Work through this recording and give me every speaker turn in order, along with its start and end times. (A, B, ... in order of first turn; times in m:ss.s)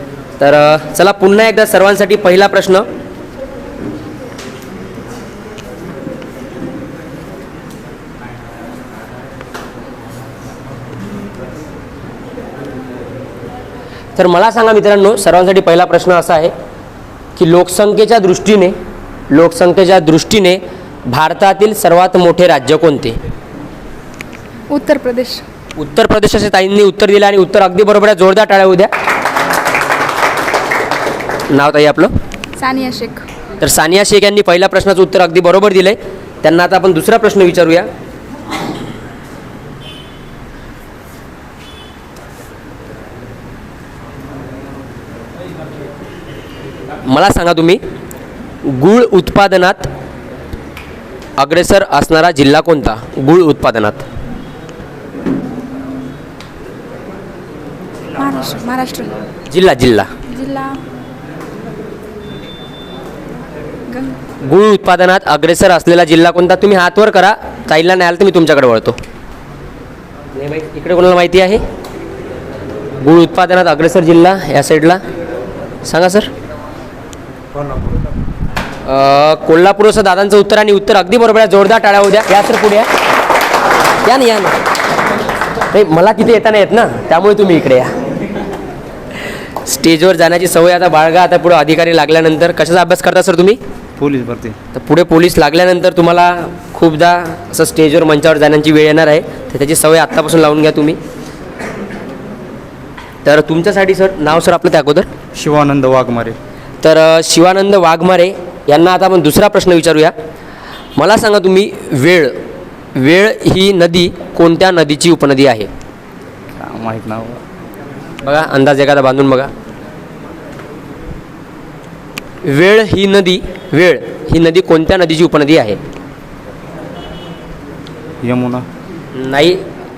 0:00.4-0:02.8 A
0:14.2-0:16.5 A
0:17.4-0:18.8 A
0:19.3-0:23.2 A
0:24.7-0:25.4 B
0:25.8-0:28.9 A
0:31.5-0:32.1 A
0:32.6-0:33.2 B
0:33.6-0:37.9 A
0:47.0-0:47.8 A
0:48.6-0:49.9 A
0:51.4-0:54.0 A
0:58.2-0:59.1 B
0:59.5-1:00.1 A
1:00.3-1:00.8 B
1:03.9-1:04.1 B
1:04.5-1:09.0 A
1:10.4-1:11.6 A
1:13.0-1:15.0 A
1:15.8-1:16.3 A
1:18.8-1:22.9 A
1:24.0-1:24.5 A
1:25.7-1:27.9 A
1:29.6-1:33.6 A
1:34.0-1:34.6 C
1:34.7-1:41.0 A
1:43.2-1:45.1 A
1:45.3-1:46.4 C
1:46.8-1:50.1 A
1:51.0-1:52.4 A
1:53.0-1:55.7 A
1:56.6-1:57.4 C
1:58.2-1:59.5 A
2:02.4-2:05.8 A
2:08.2-2:08.6 C
2:09.1-2:09.6 A